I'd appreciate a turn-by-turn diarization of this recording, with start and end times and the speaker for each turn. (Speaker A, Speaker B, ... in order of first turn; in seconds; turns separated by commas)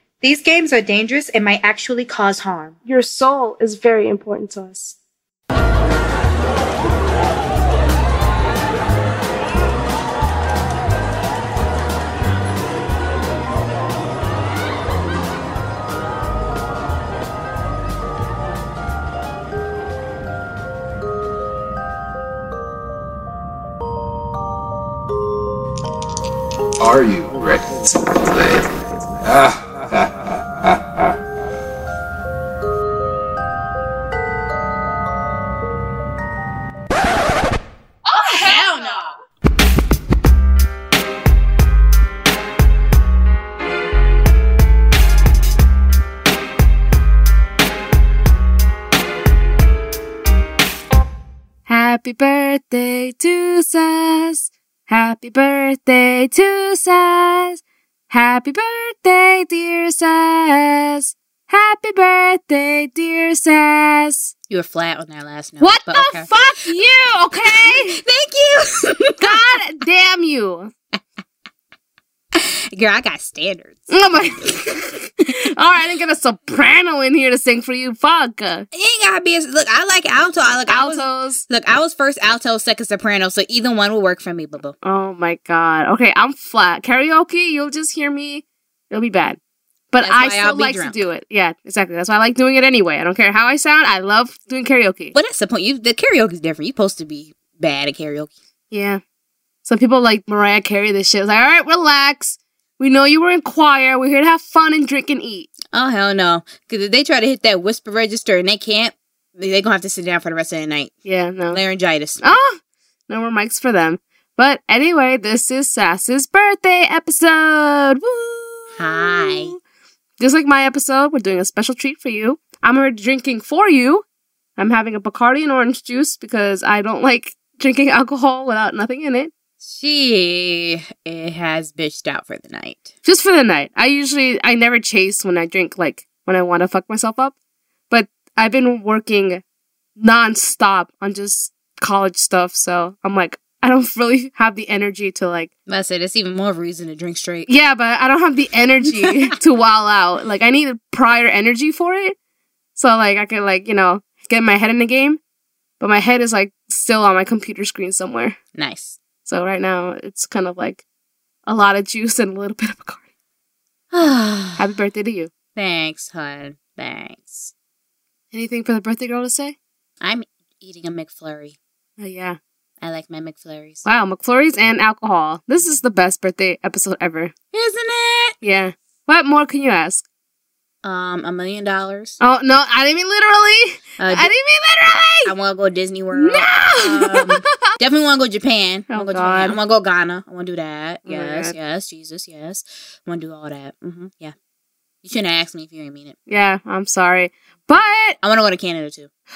Speaker A: 0.2-2.8, Speaker B: 2.9-5.0, Speaker C: 26.8-30.8, Speaker A: 38.1-39.1, Speaker D: 51.7-64.3, Speaker A: 64.5-66.3, Speaker D: 65.6-68.0, Speaker A: 67.4-69.5, Speaker D: 69.2-70.7, Speaker A: 72.3-73.9, Speaker D: 73.9-78.7, Speaker A: 78.7-84.8, Speaker D: 80.7-81.4, Speaker D: 84.8-89.4, Speaker D: 89.9-95.2, Speaker A: 90.0-91.1, Speaker A: 95.1-98.3, Speaker D: 98.7-99.0, Speaker D: 99.7-105.5, Speaker A: 105.7-110.9, Speaker D: 111.0-111.6, Speaker A: 111.5-112.2, Speaker D: 112.2-119.6, Speaker A: 118.8-119.6, Speaker D: 120.2-124.0, Speaker D: 124.6-129.3, Speaker A: 129.6-132.9, Speaker D: 133.0-137.3, Speaker D: 137.9-139.4, Speaker D: 140.0-145.5, Speaker A: 145.7-147.5, Speaker D: 147.5-152.2, Speaker A: 149.0-149.3, Speaker D: 152.8-155.2, Speaker D: 155.8-158.4, Speaker A: 158.6-159.0, Speaker D: 159.3-160.8, Speaker D: 161.5-163.0, Speaker A: 163.9-164.6, Speaker D: 164.6-165.3, Speaker A: 165.6-167.5, Speaker D: 168.3-169.6, Speaker A: 170.0-171.6, Speaker D: 172.0-172.4, Speaker A: 172.8-173.8, Speaker D: 173.8-177.3, Speaker A: 177.5-178.4, Speaker D: 178.4-180.0, Speaker A: 180.8-182.2, Speaker D: 182.2-185.3, Speaker A: 184.0-184.3, Speaker A: 185.2-194.3, Speaker D: 186.1-187.7, Speaker D: 188.9-189.6, Speaker D: 191.1-191.6, Speaker A: 195.0-196.2, Speaker D: 196.3-198.2, Speaker A: 198.2-199.1